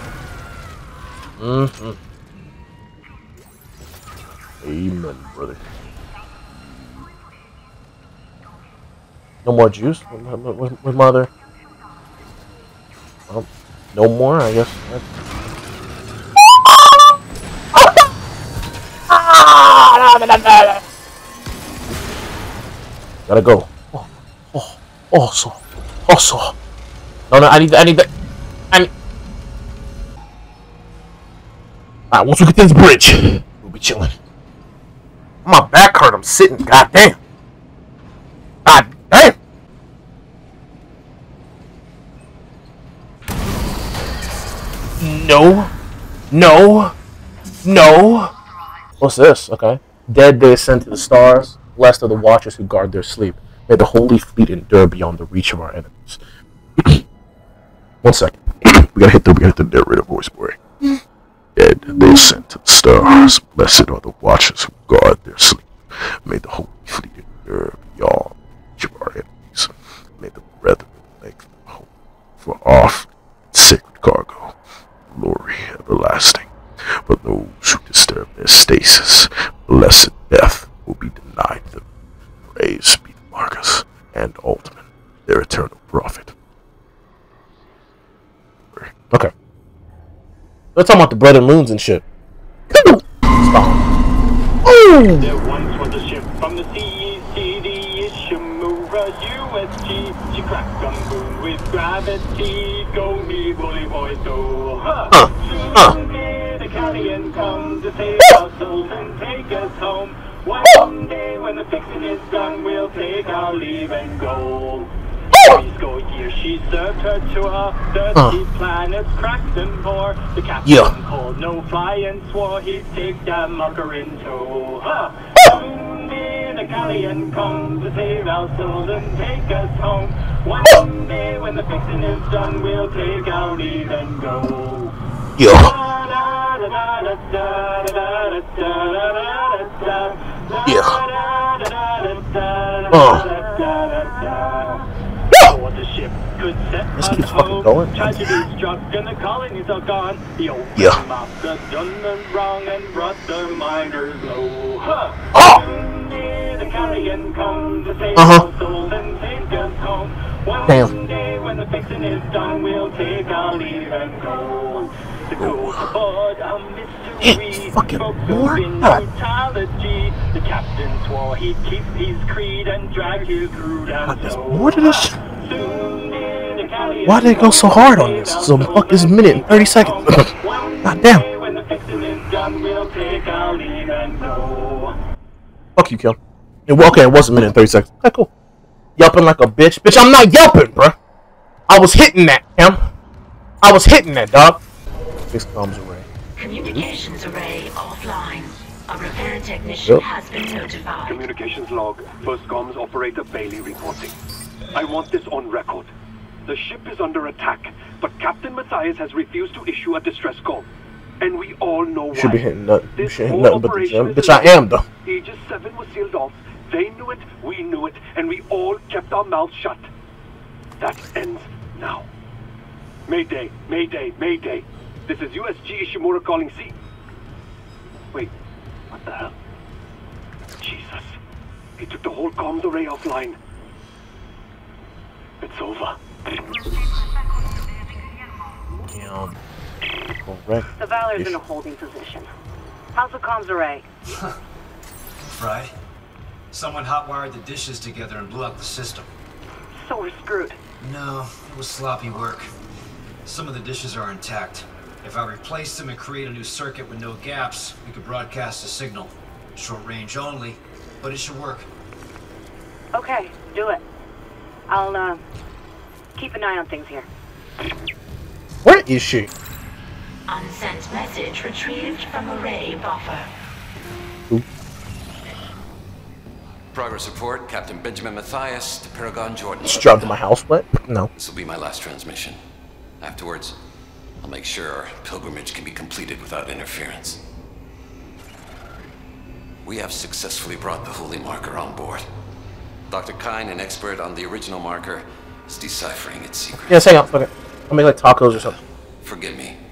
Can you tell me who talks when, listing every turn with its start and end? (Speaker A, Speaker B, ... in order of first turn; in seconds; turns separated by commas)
Speaker A: 1.4-2.0, Speaker A: 4.6-5.6, Speaker A: 9.4-11.3, Speaker A: 13.3-15.1, Speaker A: 16.4-17.2, Speaker A: 17.7-18.1, Speaker A: 19.1-20.8, Speaker A: 23.3-26.6, Speaker A: 27.3-28.1, Speaker A: 32.1-34.2, Speaker A: 35.5-37.2, Speaker A: 38.6-39.4, Speaker A: 45.0-45.7, Speaker A: 46.3-46.9, Speaker A: 47.6-48.3, Speaker A: 49.0-56.2, Speaker A: 56.8-57.0, Speaker A: 58.0-61.0, Speaker A: 61.6-65.7, Speaker A: 66.2-71.9, Speaker A: 72.4-74.5, Speaker A: 75.1-76.5, Speaker A: 77.0-81.8, Speaker A: 82.5-86.3, Speaker A: 88.7-89.3, Speaker A: 90.8-92.0, Speaker A: 92.7-93.9, Speaker A: 94.6-95.3, Speaker B: 95.2-114.9, Speaker A: 105.1-106.0, Speaker B: 115.4-144.8, Speaker A: 120.6-120.9, Speaker A: 135.4-135.8, Speaker A: 140.6-141.1, Speaker A: 142.9-143.3, Speaker B: 145.4-184.9, Speaker A: 146.9-148.4, Speaker A: 150.8-151.0, Speaker A: 155.3-155.7, Speaker A: 158.2-158.5, Speaker A: 160.7-160.9, Speaker A: 165.4-165.9, Speaker A: 167.2-169.0, Speaker A: 174.0-175.2, Speaker A: 177.1-180.3, Speaker A: 180.8-181.3, Speaker A: 185.8-188.3, Speaker A: 189.0-191.0, Speaker A: 191.7-192.8, Speaker A: 193.6-194.6, Speaker A: 195.3-196.1, Speaker C: 196.4-201.2, Speaker D: 201.1-204.2, Speaker D: 204.7-205.9, Speaker D: 206.5-210.7, Speaker D: 211.2-212.4, Speaker A: 212.1-214.9, Speaker D: 212.9-219.9, Speaker D: 220.8-222.1, Speaker D: 223.1-226.8, Speaker D: 228.9-229.3, Speaker D: 230.6-231.2, Speaker D: 231.8-233.4, Speaker D: 235.4-236.0, Speaker A: 238.9-239.4, Speaker A: 240.2-241.4, Speaker E: 240.7-242.3, Speaker E: 242.9-243.9, Speaker F: 245.3-245.7, Speaker F: 246.5-249.1, Speaker E: 249.7-250.6, Speaker F: 250.8-252.5, Speaker F: 253.2-261.7, Speaker E: 262.9-263.8, Speaker E: 264.7-265.2, Speaker E: 266.2-267.1, Speaker A: 268.6-269.3, Speaker C: 270.3-273.3, Speaker G: 276.7-280.2, Speaker A: 279.6-281.1, Speaker G: 281.1-282.4, Speaker G: 283.0-283.6, Speaker G: 284.2-287.2, Speaker G: 289.6-292.1, Speaker G: 292.9-297.0, Speaker A: 296.6-298.6, Speaker G: 298.3-299.6